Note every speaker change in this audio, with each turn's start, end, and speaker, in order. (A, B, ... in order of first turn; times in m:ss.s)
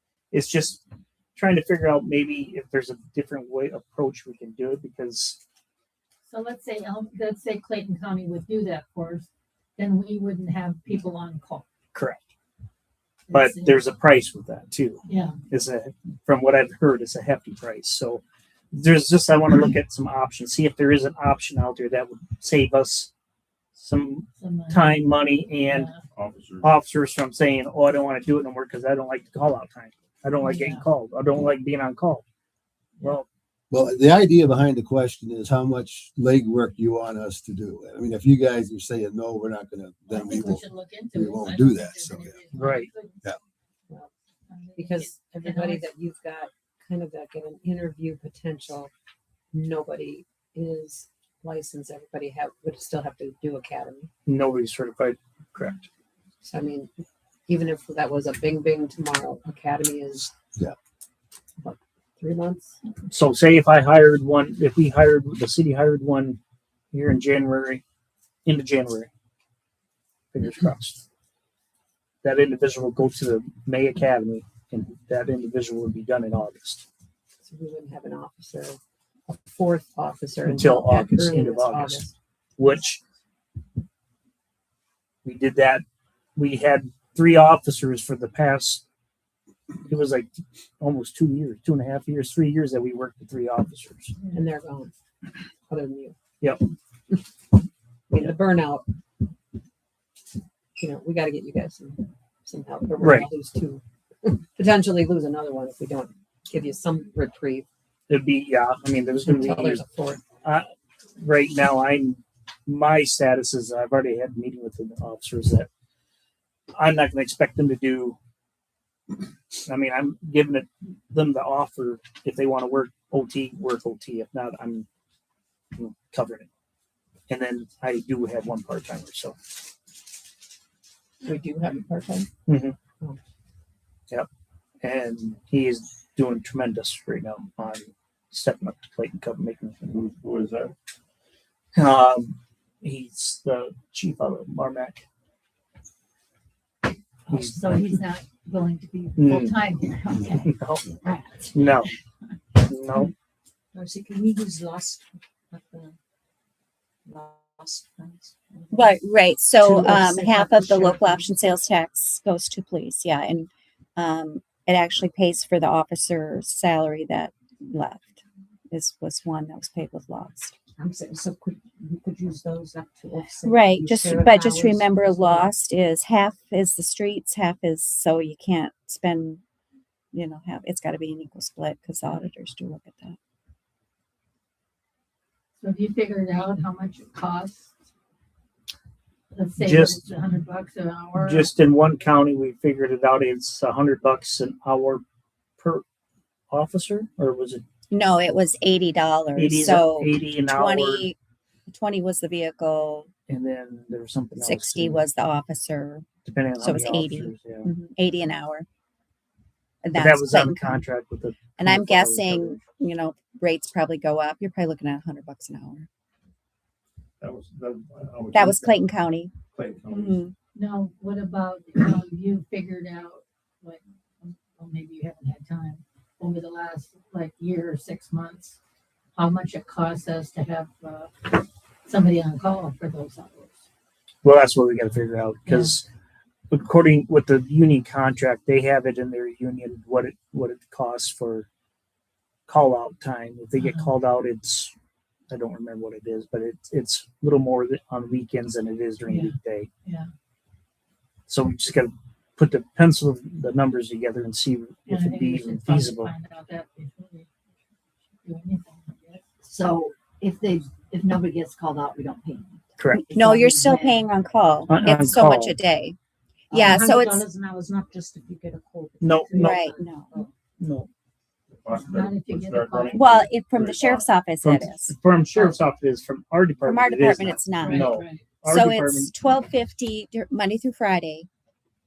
0:00.3-0:00.8 A
0:01.4-0:05.4 A
0:06.3-0:11.7 B
0:11.9-0:12.3 A
0:13.3-0:13.8 B
0:13.3-0:23.1 A
0:15.0-0:15.4 B
0:23.8-0:25.9 A
0:24.4-0:25.0 B
0:25.7-0:26.0 B
0:26.1-0:26.7 C
0:26.6-0:32.2 A
0:30.4-0:30.8 B
0:33.0-0:33.3 A
0:33.7-0:42.4 D
0:40.1-0:43.2 B
0:42.5-0:42.9 A
0:44.5-0:45.9 B
0:44.8-0:48.9 E
0:49.5-0:54.1 E
0:54.3-0:55.9 A
0:56.4-0:56.9 E
0:57.5-1:00.3 E
1:01.6-1:02.8 E
1:03.1-1:06.4 A
1:06.9-1:07.8 A
1:08.4-1:09.1 A
1:10.3-1:11.0 A
1:12.2-1:16.8 A
1:17.4-1:22.2 E
1:20.4-1:23.0 A
1:25.2-1:25.8 A
1:26.4-1:28.8 A
1:29.8-1:34.2 A
1:34.3-1:34.9 E
1:35.7-1:36.2 E
1:36.4-1:36.7 A
1:38.1-1:38.9 E
1:40.8-1:47.7 E
1:43.0-1:43.3 A
1:48.1-1:49.8 A
1:49.2-1:50.2 E
1:50.4-1:55.7 A
1:56.7-1:58.2 A
1:59.7-2:04.9 A
2:05.8-2:06.5 A
2:07.3-2:09.4 A
2:11.2-2:12.3 E
2:12.5-2:12.8 A
2:14.8-2:20.1 A
2:19.9-2:20.7 C
2:21.8-2:25.0 A
2:27.3-2:31.7 B
2:27.3-2:28.0 A
2:29.2-2:29.6 A
2:30.4-2:30.8 A
2:31.5-2:31.9 A
2:32.6-2:33.1 A
2:33.7-2:36.0 F
2:37.1-2:39.0 F
2:38.7-2:50.6 G
2:39.6-2:41.3 F
2:50.8-2:55.5 F
2:53.4-2:59.4 G
3:00.1-3:03.2 G
3:05.6-3:07.7 B
3:09.3-3:11.5 B
3:09.6-3:10.0 A
3:11.2-3:15.0 A
3:15.6-3:15.8 A
3:16.5-3:17.6 A
3:17.9-3:21.2 G
3:19.4-3:21.1 A
3:21.7-3:23.1 G
3:23.3-3:25.0 A
3:24.4-3:26.1 G
3:26.2-3:27.7 A
3:26.6-3:28.7 G
3:29.8-3:30.9 G
3:29.9-3:32.7 A
3:31.6-3:35.9 G
3:37.2-3:38.8 C
3:38.3-3:39.3 G
3:39.5-3:40.2 C
3:39.9-3:40.3 G
3:40.6-3:48.6 B
3:49.2-3:53.6 B
3:54.2-3:55.8 A
3:55.5-3:55.8 B
3:56.5-4:01.5 A
4:02.5-4:04.7 A
4:03.6-4:03.9 B
4:05.3-4:09.7 A
4:09.1-4:10.1 B
4:11.3-4:16.1 A
4:14.9-4:17.3 B
4:18.2-4:19.2 B
4:19.4-4:24.0 H
4:22.8-4:23.1 A
4:22.9-4:26.0 G
4:24.7-4:25.6 A
4:26.5-4:27.2 G
4:26.5-4:30.3 F
4:29.0-4:29.6 A
4:29.3-4:30.1 G
4:30.6-4:30.9 A
4:31.6-4:34.1 C
4:31.8-4:33.0 B
4:32.9-4:35.0 G
4:34.4-4:39.1 A
4:36.6-4:41.3 G
4:37.6-4:38.2 B